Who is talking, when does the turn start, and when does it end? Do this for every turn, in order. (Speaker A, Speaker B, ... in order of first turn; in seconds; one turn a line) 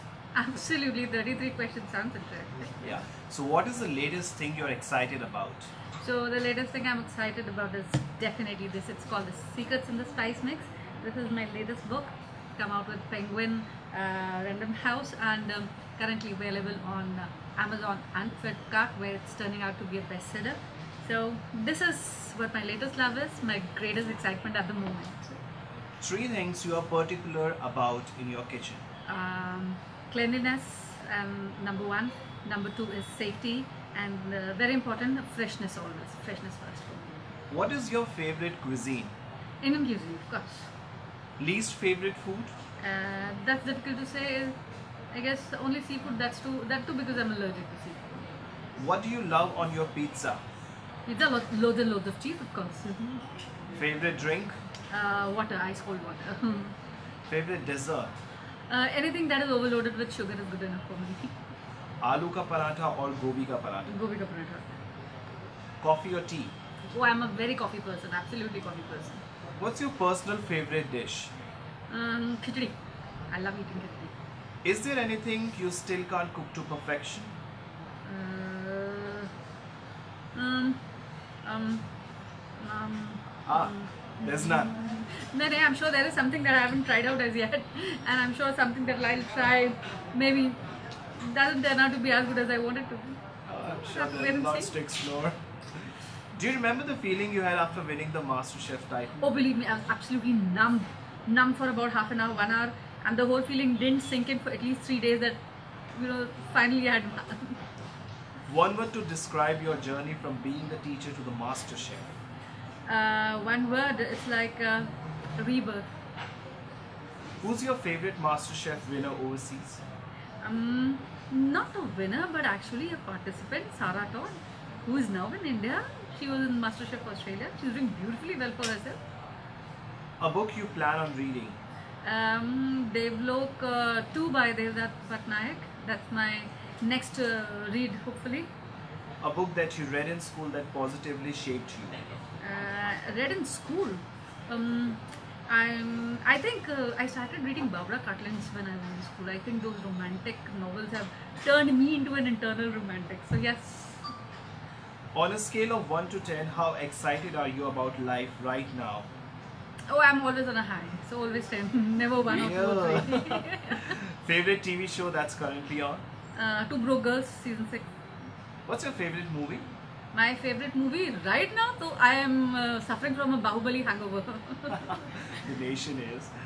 Speaker A: 0.3-2.9
Speaker B: 2.8-5.7
Speaker A: 6.0-25.4
Speaker B: 26.0-28.8
Speaker A: 29.1-37.3
Speaker B: 37.5-39.1
Speaker A: 39.6-40.7
Speaker B: 41.4-42.5
Speaker A: 42.8-44.5
Speaker A: 45.1-48.3
Speaker B: 48.8-50.4
Speaker A: 51.1-53.2
Speaker B: 53.8-54.6
Speaker A: 54.9-56.7
Speaker B: 57.3-58.1
Speaker A: 58.7-61.4
Speaker B: 62.0-63.9
Speaker A: 63.9-64.7
Speaker B: 65.8-66.5
Speaker A: 66.9-69.2
Speaker B: 69.6-71.3
Speaker A: 71.9-72.8
Speaker A: 73.3-74.1
Speaker B: 74.6-77.3
Speaker A: 78.0-79.3
Speaker A: 80.3-80.8
Speaker A: 81.4-81.9
Speaker A: 82.6-90.6
Speaker B: 83.5-84.7
Speaker A: 91.2-93.2
Speaker B: 93.5-95.4
Speaker A: 93.7-94.8
Speaker B: 96.3-99.2
Speaker A: 99.2-105.3
Speaker A: 105.9-107.6
Speaker B: 108.5-112.1
Speaker A: 112.9-115.9
Speaker B: 117.4-119.8
Speaker A: 120.4-129.0
Speaker B: 130.2-131.6
Speaker A: 132.0-138.5
Speaker B: 139.2-142.1
Speaker A: 142.4-154.1
Speaker B: 155.1-159.1
Speaker A: 159.9-164.0
Speaker B: 162.2-166.0
Speaker A: 166.3-167.9
Speaker B: 168.7-169.7
Speaker A: 170.1-175.1
Speaker B: 174.8-176.3